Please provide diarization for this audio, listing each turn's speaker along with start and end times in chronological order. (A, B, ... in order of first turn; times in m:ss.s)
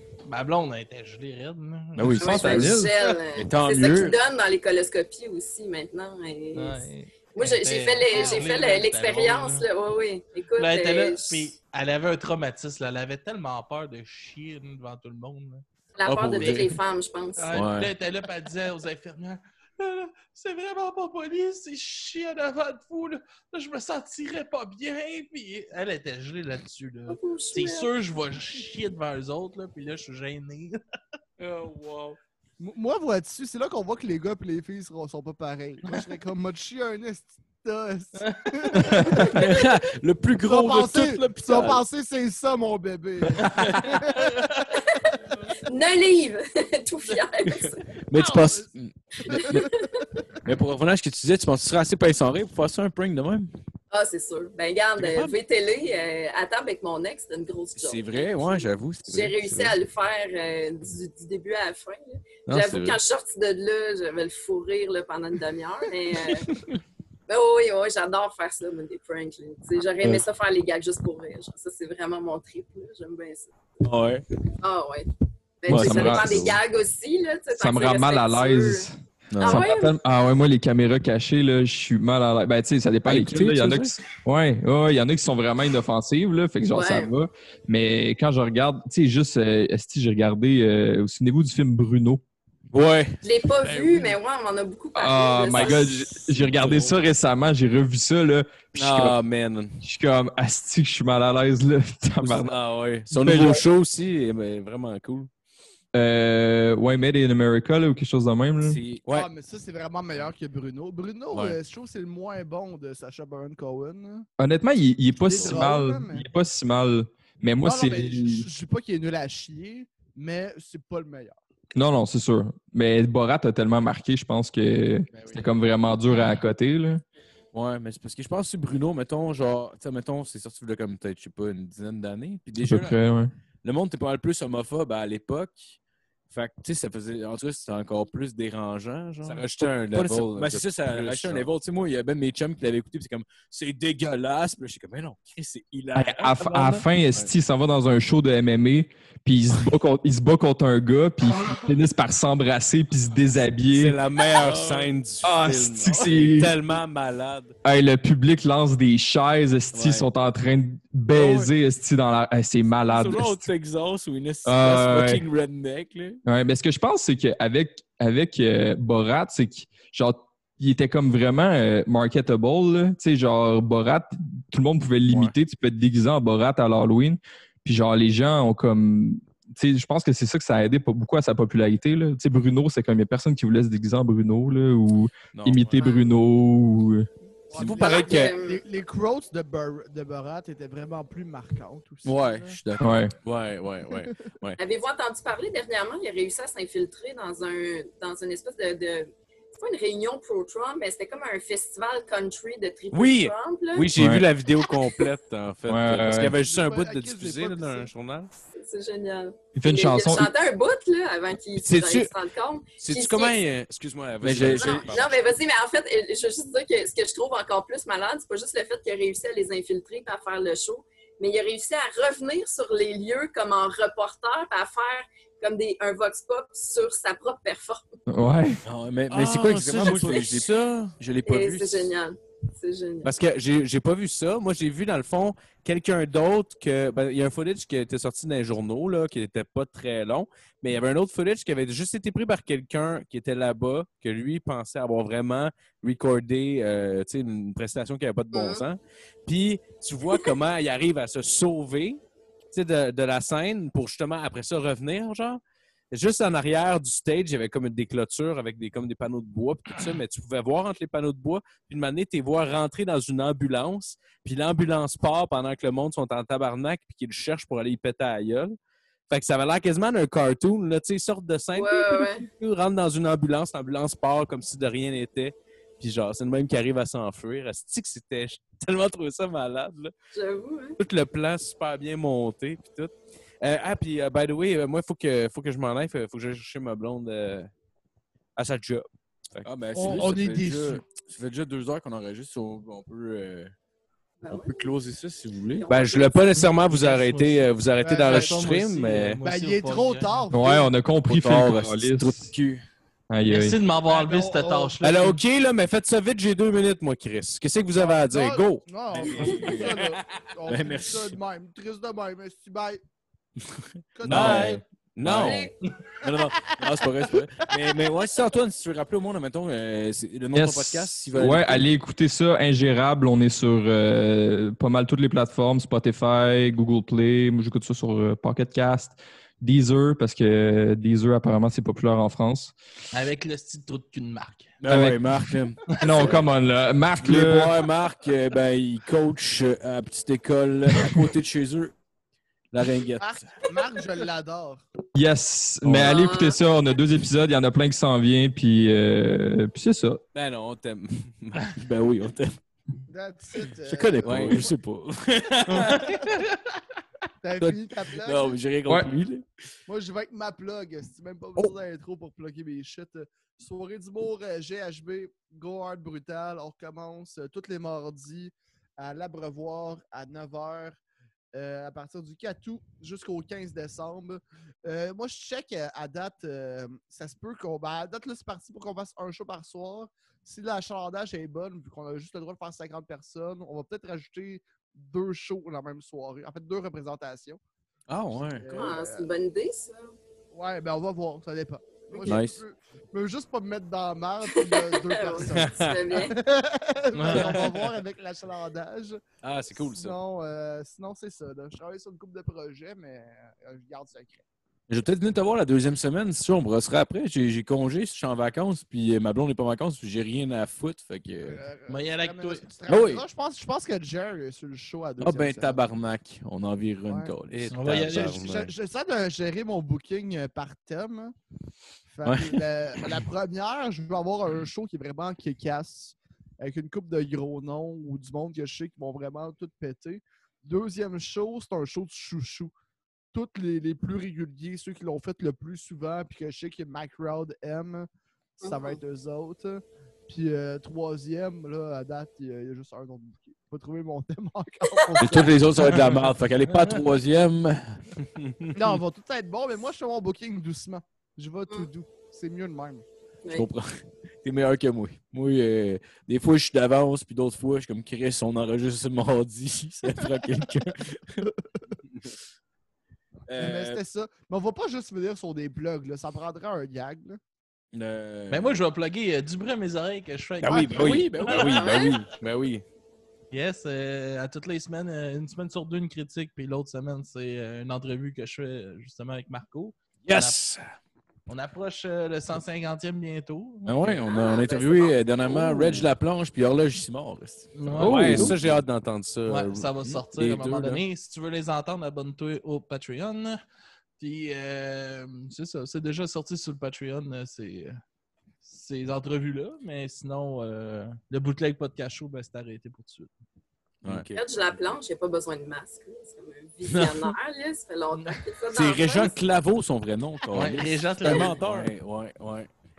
0:00.2-0:02.6 A
0:02.0-0:02.8 B
0:02.2-0:11.5 C
0:02.2-0:02.9 D
0:02.3-0:02.8 E
0:03.4-0:04.2 B
0:03.6-0:04.1 E
0:06.5-0:09.7 A
0:10.6-0:15.6 A
0:16.0-0:17.6 C
0:16.1-0:16.7 E
0:16.1-0:16.5 B
0:16.4-0:16.7 A
0:17.4-0:30.8 A
0:17.5-0:17.9 B
0:27.1-0:27.9 C
0:31.4-0:32.2 E
0:32.6-0:39.6 F
0:38.2-0:39.1 A
0:39.2-0:41.8 E
0:39.3-0:41.8 B
0:40.4-0:44.7 F
0:43.4-0:43.8 A
0:43.6-0:44.0 E
0:44.7-0:47.9 C
0:48.1-0:49.6 B
0:48.1-0:48.7 F
0:48.2-0:48.5 E
0:49.2-0:50.1 C
0:49.3-0:49.8 F
0:50.4-0:53.5 B
0:53.9-1:06.5 C
0:55.0-0:55.3 B
0:57.7-0:59.7 B
1:02.5-1:02.9 B
1:02.5-1:02.9 E
1:07.3-1:13.6 C
1:13.8-1:14.2 B
1:14.6-1:15.1 C
1:15.6-1:20.0 C
1:15.7-1:16.4 B
1:15.7-1:16.6 D
1:15.7-1:16.5 E
1:17.5-1:18.9 D
1:19.3-1:19.6 B
1:19.4-1:19.6 E
1:19.4-1:32.2 D
1:23.1-1:23.8 B
1:23.4-1:23.8 E
1:26.7-1:27.1 C
1:32.7-1:33.1 E
1:33.2-1:36.3 C
1:33.6-1:34.1 E
1:33.7-1:34.0 B
1:34.9-1:39.2 D
1:36.6-1:36.9 E
1:38.8-1:39.7 E
1:39.8-1:42.5 D
1:42.2-1:45.3 E
1:43.1-1:43.6 D
1:45.9-1:48.8 D
1:48.6-1:49.0 B
1:48.8-1:49.3 E
1:49.1-1:54.3 F
1:54.4-1:58.5 D
1:55.2-1:56.2 F
1:57.6-2:01.4 F
2:01.7-2:07.0 D
2:05.1-2:05.5 B
2:07.5-2:12.9 B
2:12.6-2:13.3 D
2:13.6-2:15.7 B
2:16.3-2:26.1 B
2:19.2-2:21.5 E
2:25.9-2:34.0 D
2:26.0-2:27.2 E
2:33.7-2:37.5 E
2:34.2-2:35.4 B
2:35.2-2:36.5 D
2:37.6-2:43.5 D
2:39.7-2:40.0 B
2:41.2-2:41.5 B
2:43.0-2:43.4 E
2:43.0-2:46.2 B
2:44.4-2:45.2 D
2:46.2-3:07.1 D
3:05.3-3:05.7 B
3:05.7-3:06.1 C
3:07.5-3:12.6 F
3:07.5-3:08.4 B
3:07.6-3:08.6 C
3:12.1-3:12.8 B
3:12.8-3:13.1 D
3:13.2-3:14.6 E
3:14.6-3:23.9 C
3:22.9-3:28.3 E
3:24.0-3:24.2 D
3:25.7-3:26.4 D
3:26.3-3:27.9 F
3:28.5-3:33.4 C
3:29.6-3:30.3 D
3:31.6-3:32.1 E
3:32.8-3:35.1 E
3:34.2-3:35.2 B
3:34.4-3:48.0 C
3:48.1-3:48.6 D
3:48.6-3:51.9 B
3:49.1-3:51.0 E
3:49.8-3:50.2 C
3:51.2-3:53.1 C
3:53.0-4:12.0 E
4:08.3-4:08.6 C
4:12.5-4:15.4 E
4:15.9-4:28.5 E
4:29.1-4:39.9 E
4:31.5-4:32.2 C
4:40.1-4:40.8 C
4:40.8-4:47.5 E
4:48.4-4:49.5 E
4:49.4-4:53.5 B
4:49.7-4:50.8 F
4:54.2-4:54.7 C
4:54.3-4:55.8 B
4:55.5-4:56.5 C
4:55.7-4:59.2 E
4:56.4-4:57.5 A
4:57.8-4:58.4 F
4:58.0-5:00.2 A
4:59.2-5:00.7 F
5:00.3-5:02.3 D
5:01.1-5:02.6 B
5:03.1-5:03.6 D
5:03.3-5:05.2 A
5:03.8-5:04.8 F
5:04.8-5:10.0 E
5:07.7-5:12.8 F
5:09.0-5:09.8 B
5:10.5-5:11.1 B
5:13.9-5:14.5 F
5:14.0-5:21.6 B
5:14.1-5:15.5 E
5:14.1-5:14.6 A
5:15.2-5:15.5 C
5:16.1-5:17.9 F
5:20.3-5:32.5 D
5:32.9-5:34.6 A
5:34.6-5:36.0 B
5:34.7-5:35.2 D
5:35.8-5:36.2 C
5:35.8-5:37.6 D
5:37.0-5:41.7 B
5:42.5-5:43.2 B
5:43.0-5:44.6 F
5:44.9-5:50.0 D
5:45.7-5:45.9 B
5:45.8-5:46.4 C
5:50.1-5:51.6 E
5:51.4-5:52.3 B
5:52.9-5:54.5 F
5:53.6-5:55.8 B
5:54.0-5:54.5 E
5:55.3-5:55.8 E
5:55.5-5:56.4 A
5:57.2-5:58.4 F
5:57.4-5:59.2 B
5:59.7-6:10.8 F
6:11.3-6:27.4 F
6:27.9-6:28.6 B
6:28.1-6:29.1 F
6:28.6-6:29.9 C
6:30.3-6:39.0 F
6:32.0-6:32.3 E
6:32.0-6:32.4 B
6:34.3-6:36.2 C
6:35.3-6:35.8 E
6:36.9-6:37.8 E
6:39.2-6:40.0 E
6:39.5-6:44.2 F
6:44.7-6:51.4 B
6:51.3-6:55.6 F
6:51.7-6:52.5 A
6:52.7-6:53.0 B
6:55.0-6:57.8 B
6:56.8-6:57.1 F
6:57.3-6:58.5 E
6:57.5-6:58.2 A
6:57.7-7:01.1 F
7:01.9-7:12.5 F
7:02.0-7:02.4 B
7:13.1-7:17.9 F
7:18.4-7:25.7 F
7:18.4-7:18.8 C
7:24.6-7:25.2 C
7:25.0-7:27.9 B
7:25.7-7:26.0 A
7:28.0-7:28.5 E
7:28.5-7:32.8 F
7:33.3-7:41.3 B
7:43.3-7:43.8 B
7:43.4-7:47.2 F
7:47.7-7:48.6 B
7:48.3-7:51.1 A
7:50.4-7:52.6 B
7:50.4-7:52.6 E
7:50.5-7:51.1 F
7:51.2-7:52.0 C
7:53.3-8:00.4 A
8:00.0-8:00.6 B
8:01.3-8:04.0 A
8:03.6-8:08.6 B
8:04.0-8:05.8 C
8:07.5-8:08.4 A
8:07.8-8:10.8 E
8:09.3-8:13.4 A
8:14.0-8:17.8 A
8:18.4-8:23.1 A
8:23.8-8:24.7 B
8:24.1-8:29.2 C
8:27.9-8:28.2 A
8:28.5-8:32.5 B
8:30.3-8:31.7 A
8:30.9-8:31.7 E